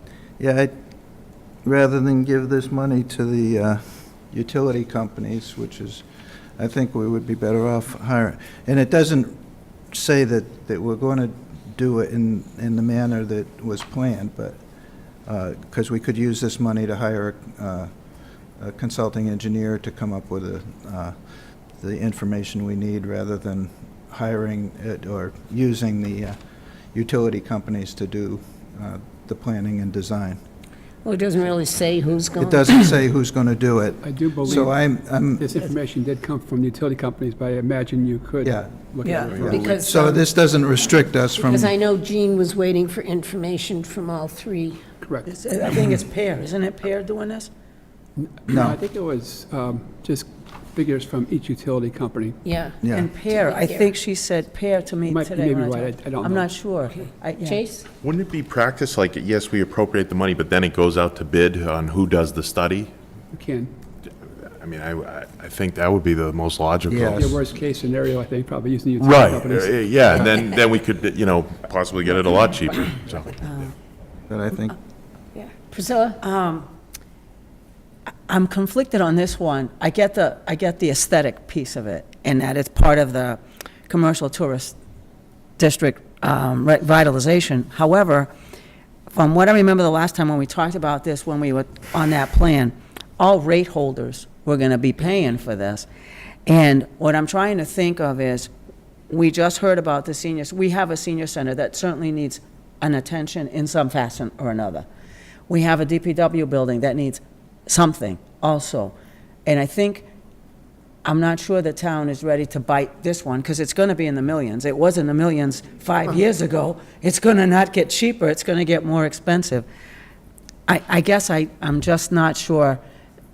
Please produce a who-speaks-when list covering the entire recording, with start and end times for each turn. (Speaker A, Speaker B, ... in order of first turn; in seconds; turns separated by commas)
Speaker A: 0.4-0.7, Speaker A: 1.6-6.0, Speaker A: 6.6-9.4, Speaker A: 9.9-14.6, Speaker A: 15.3-17.9, Speaker A: 18.6-21.1, Speaker A: 21.8-26.4, Speaker A: 26.9-30.4, Speaker B: 31.0-32.9, Speaker A: 32.4-35.6, Speaker C: 34.0-39.8, Speaker A: 38.4-38.7, Speaker B: 39.0-40.3, Speaker A: 39.3-41.7, Speaker B: 41.4-44.8, Speaker C: 45.0-45.3, Speaker D: 45.3-47.5, Speaker C: 48.2-52.4, Speaker A: 48.5-48.8, Speaker B: 52.4-53.9, Speaker A: 52.8-53.1, Speaker D: 52.9-57.6, Speaker C: 55.1-56.5, Speaker B: 57.4-57.9, Speaker E: 58.0-62.9, Speaker C: 63.3-63.7, Speaker E: 64.0-67.3, Speaker A: 66.9-67.4, Speaker C: 67.1-70.4, Speaker E: 69.0-73.3, Speaker D: 73.4-73.7, Speaker A: 74.3-74.8, Speaker B: 75.3-76.2, Speaker D: 76.2-76.7, Speaker D: 78.3-84.8, Speaker D: 85.6-88.3, Speaker D: 89.1-95.9, Speaker D: 96.5-98.5, Speaker D: 99.1-104.8, Speaker D: 105.5-108.9, Speaker D: 109.5-110.0, Speaker D: 111.0-119.7, Speaker D: 120.7-122.8